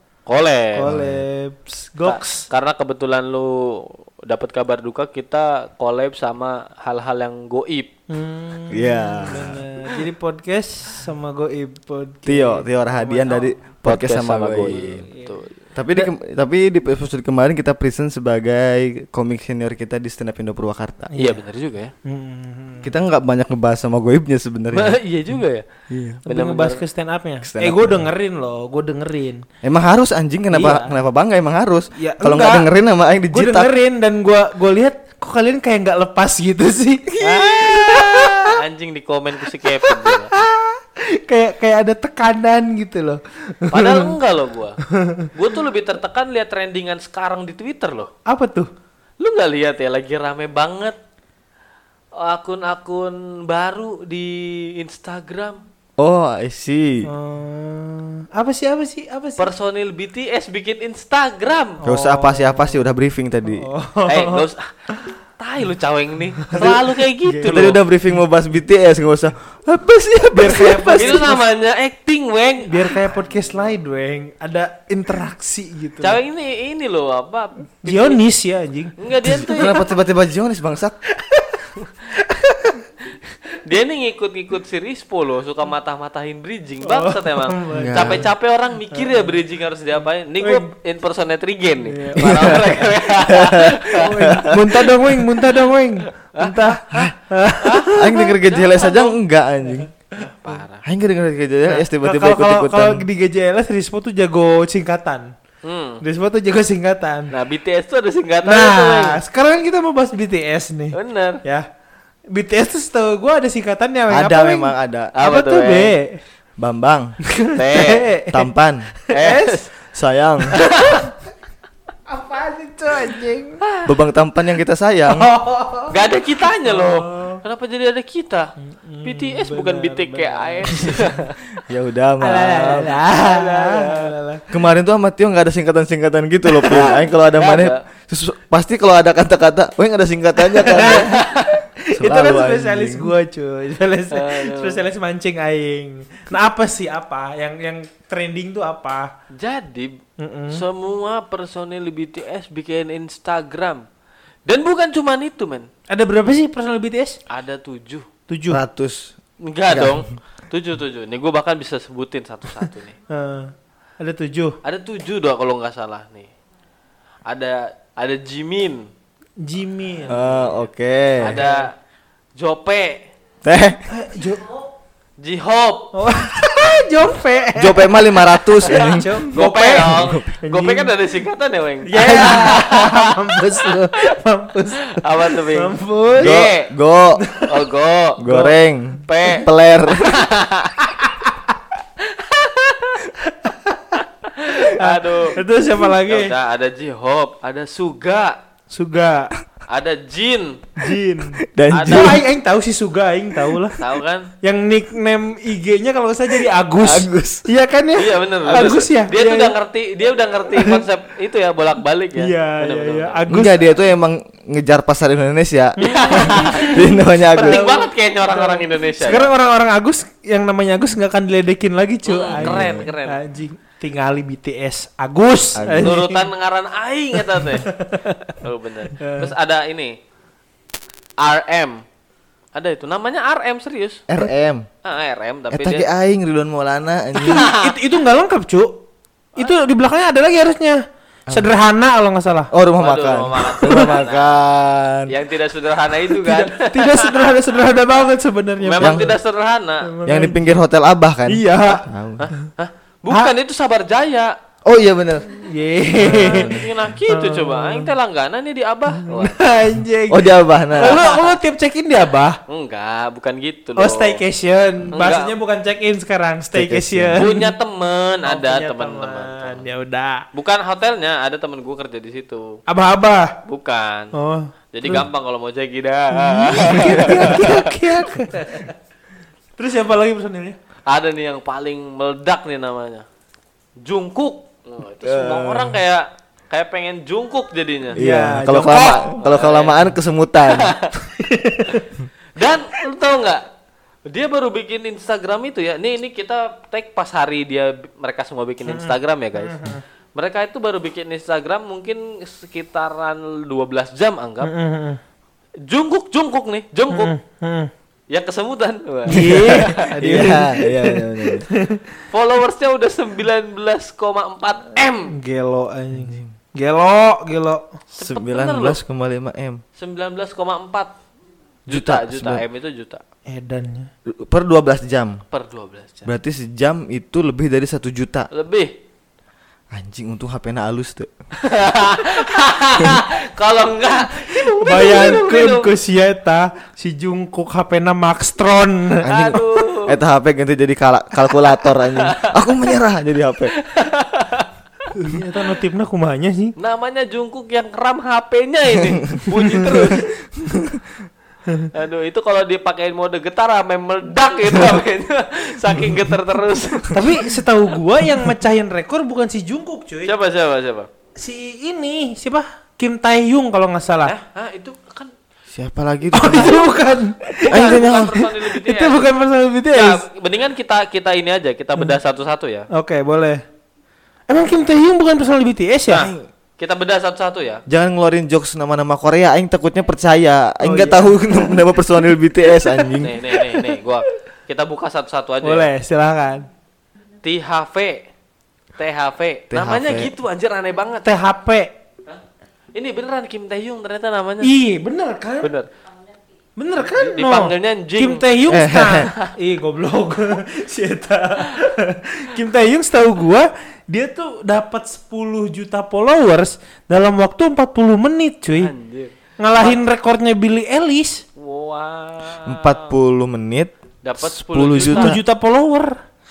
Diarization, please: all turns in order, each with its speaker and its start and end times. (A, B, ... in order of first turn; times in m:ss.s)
0:00.3-0:00.9 A
0:00.8-0:02.4 B
0:00.9-0:01.2 C
0:02.0-0:07.9 A
0:08.1-0:13.6 B
0:08.7-0:09.6 C
0:12.3-0:15.0 C
0:13.8-0:15.5 A
0:14.7-0:15.4 B
0:15.8-0:21.1 C
0:21.2-0:21.9 A
0:22.0-0:22.9 B
0:22.8-0:25.0 C
0:24.7-0:25.7 A
0:25.9-0:26.2 C
0:26.3-0:29.4 B
0:26.3-0:26.8 A
0:27.4-0:28.1 C
0:29.6-0:33.7 C
0:30.5-0:30.9 B
0:32.0-0:32.7 B
0:33.3-0:38.5 B
0:37.2-0:38.4 C
0:37.2-0:40.3 A
0:39.8-0:44.1 B
0:43.7-0:44.8 A
0:45.0-0:45.3 B
0:45.3-0:48.1 A
0:48.3-0:48.7 B
0:49.2-0:51.0 A
0:52.2-0:55.6 A
0:56.0-0:57.1 C
0:57.1-0:59.5 B
0:59.4-1:01.8 A
1:01.8-1:02.8 B
1:01.8-1:03.7 C
1:03.5-1:04.4 B
1:04.1-1:04.7 A
1:05.4-1:07.8 A
1:06.5-1:07.7 B
1:06.6-1:11.3 C
1:10.4-1:11.4 B
1:11.0-1:13.1 A
1:12.7-1:16.2 B
1:16.0-1:18.2 A
1:17.8-1:19.0 B
1:19.0-1:19.9 A
1:19.2-1:21.0 C
1:21.2-1:22.8 B
1:23.6-1:34.4 A
1:26.8-1:28.2 B
1:27.7-1:28.3 C
1:28.9-1:29.3 B
1:30.4-1:30.7 B
1:31.9-1:32.6 B
1:32.2-1:35.3 C
1:34.0-1:38.4 B
1:36.3-1:37.1 A
1:37.6-1:39.2 A
1:37.9-1:39.9 C
1:39.7-1:40.2 B
1:40.2-1:40.8 A
1:40.8-1:43.0 C
1:41.7-1:45.3 B
1:45.6-1:46.0 A
1:46.0-1:47.3 B
1:47.3-1:49.2 A
1:48.4-1:51.7 B
1:50.9-1:51.4 A
1:52.3-1:56.2 B
1:54.1-1:55.1 C
1:55.2-1:55.9 A
1:56.6-1:57.2 C
1:57.3-1:58.5 B
1:57.5-1:58.1 A
1:58.3-1:59.0 C
1:59.1-1:59.7 B
1:59.1-1:59.6 A
1:59.9-2:00.6 C
2:00.6-2:01.0 B
2:00.6-2:01.1 A
2:02.1-2:03.6 B
2:03.6-2:03.9 A
2:03.9-2:05.3 C
2:05.1-2:06.0 B
2:05.9-2:08.5 A
2:06.6-2:07.4 B
2:08.6-2:11.0 B
2:09.0-2:11.4 A
2:10.8-2:11.1 C
2:11.6-2:13.0 C
2:12.2-2:14.4 B
2:13.1-2:14.1 A
2:14.5-2:21.2 C
2:17.2-2:17.8 A
2:20.4-2:29.1 B
2:21.0-2:21.6 A
2:21.9-2:23.1 C
2:24.1-2:24.8 A
2:29.3-2:30.0 A
2:30.2-2:30.6 B
2:30.5-2:33.9 A
2:34.5-2:35.7 A
2:35.9-2:37.2 B
2:37.3-2:38.1 A
2:38.3-2:38.6 B
2:38.5-2:39.2 C
2:39.4-2:43.0 A
2:39.7-2:40.0 C
2:43.1-2:44.6 B
2:44.6-2:46.3 A
2:47.3-2:48.9 A
2:49.4-2:50.2 B
2:50.1-2:51.4 C
2:50.1-2:50.6 A
2:51.2-2:51.7 A
2:51.2-2:51.7 B
2:52.4-2:53.1 A
2:53.4-2:53.8 C
2:53.9-2:54.5 B
2:55.2-2:55.9 A
2:55.9-3:00.9 B
2:57.6-3:00.2 C
2:59.0-3:04.2 A
3:01.9-3:06.5 B
3:04.8-3:06.7 A
3:06.2-3:07.2 C
3:07.2-3:07.6 B
3:07.4-3:08.5 A
3:08.2-3:10.2 C
3:09.0-3:10.8 A
3:11.0-3:11.3 B
3:12.1-3:13.1 A
3:13.3-3:14.0 B
3:14.3-3:15.4 A
3:14.7-3:16.3 B
3:16.0-3:18.4 A
3:18.7-3:19.3 B
3:19.7-3:20.7 A
3:20.8-3:23.8 B
3:21.4-3:22.2 C
3:21.7-3:22.2 A
3:23.8-3:24.3 A
3:24.4-3:29.6 B
3:26.8-3:27.5 C
3:28.0-3:33.2 A
3:32.2-3:33.8 B
3:33.3-3:37.6 C
3:35.8-3:46.3 B
3:35.8-3:39.3 A
3:42.1-3:43.2 A
3:42.4-3:42.9 C
3:45.6-3:46.0 C
3:45.8-3:47.7 A
3:47.6-3:48.3 B
3:48.4-3:50.0 A
3:49.0-3:49.3 B
3:51.2-3:51.8 A
3:52.6-3:54.0 A
3:54.1-3:54.7 C
3:54.8-3:55.9 A
3:55.5-3:57.5 C
3:57.2-3:58.8 B
3:57.2-3:57.7 A
3:59.4-4:00.8 B
4:01.3-4:02.5 B
4:02.5-4:05.1 C
4:02.8-4:04.4 A
4:03.6-4:04.0 B
4:05.1-4:07.5 A
4:06.1-4:09.2 B
4:08.6-4:09.9 A
4:08.8-4:09.2 C
4:09.9-4:10.5 B
4:10.1-4:12.3 C
4:11.3-4:11.8 B
4:12.2-4:14.3 A
4:14.6-4:15.3 C
4:15.4-4:17.9 B
4:16.1-4:19.6 A
4:16.1-4:16.7 C
4:19.0-4:22.4 B
4:20.1-4:21.0 C
4:20.8-4:21.4 A
4:22.5-4:24.2 A
4:23.8-4:27.5 B
4:24.9-4:25.3 A
4:26.5-4:27.2 C
4:27.2-4:29.6 A
4:28.3-4:30.3 B
4:30.3-4:32.6 A
4:32.7-4:33.4 B
4:33.5-4:34.1 A
4:34.1-4:35.0 B
4:34.7-4:37.9 A
4:36.1-4:38.7 B
4:36.6-4:37.5 C
4:39.6-4:40.6 B
4:40.9-4:43.1 A
4:43.8-4:48.0 A
4:45.0-4:45.8 C
4:48.0-4:50.8 C
4:48.0-4:49.0 B
4:48.6-4:49.8 A
4:50.5-4:50.9 A
4:51.0-4:51.9 B
4:52.4-4:53.4 A
4:54.1-4:59.6 A
4:58.7-4:59.8 B
5:00.2-5:04.5 A
5:04.4-5:05.0 B
5:05.7-5:07.1 A
5:06.9-5:07.7 B
5:08.1-5:09.8 A
5:09.1-5:11.8 B
5:09.1-5:11.5 C
5:12.1-5:15.2 A
5:15.1-5:17.6 B
5:15.9-5:16.3 C
5:17.9-5:18.8 A
5:18.0-5:19.6 C
5:19.8-5:20.9 A
5:21.7-5:22.4 C
5:21.7-5:23.0 A
5:23.3-5:23.9 B
5:24.1-5:25.2 C
5:25.3-5:26.1 A
5:26.0-5:28.3 C
5:28.3-5:28.7 A
5:29.7-5:31.1 C
5:31.4-5:35.8 A
5:34.3-5:39.2 B
5:39.0-5:43.5 C
5:39.1-5:40.0 A
5:41.7-5:42.4 A
5:43.6-5:44.5 A
5:44.9-5:46.6 B
5:46.6-5:50.1 A
5:49.6-5:50.8 C
5:51.7-5:57.1 A
5:56.9-6:00.1 B
6:00.0-6:00.9 A
6:01.2-6:04.1 B
6:04.1-6:05.1 A
6:05.5-6:06.7 C
6:06.1-6:10.0 B
6:07.4-6:08.2 C
6:07.4-6:09.0 A
6:09.7-6:12.7 A
6:12.7-6:13.4 B
6:14.3-6:16.1 B
6:15.9-6:17.6 A
6:15.9-6:16.3 C
6:17.7-6:23.2 C
6:20.6-6:21.7 B
6:22.6-6:23.5 B
6:23.0-6:25.7 A
6:25.4-6:26.5 B
6:27.2-6:28.1 A
6:28.8-6:31.1 A
6:29.5-6:30.1 C
6:31.0-6:31.7 B
6:32.7-6:34.5 A
6:34.4-6:35.5 B
6:35.4-6:35.7 A
6:36.6-6:48.7 B
6:36.8-6:38.2 A
6:38.5-6:39.1 C
6:48.5-6:49.8 A
6:49.4-6:51.2 B
6:51.4-6:52.9 A
6:52.4-6:55.2 C
6:54.0-6:55.2 A
6:54.8-6:56.0 B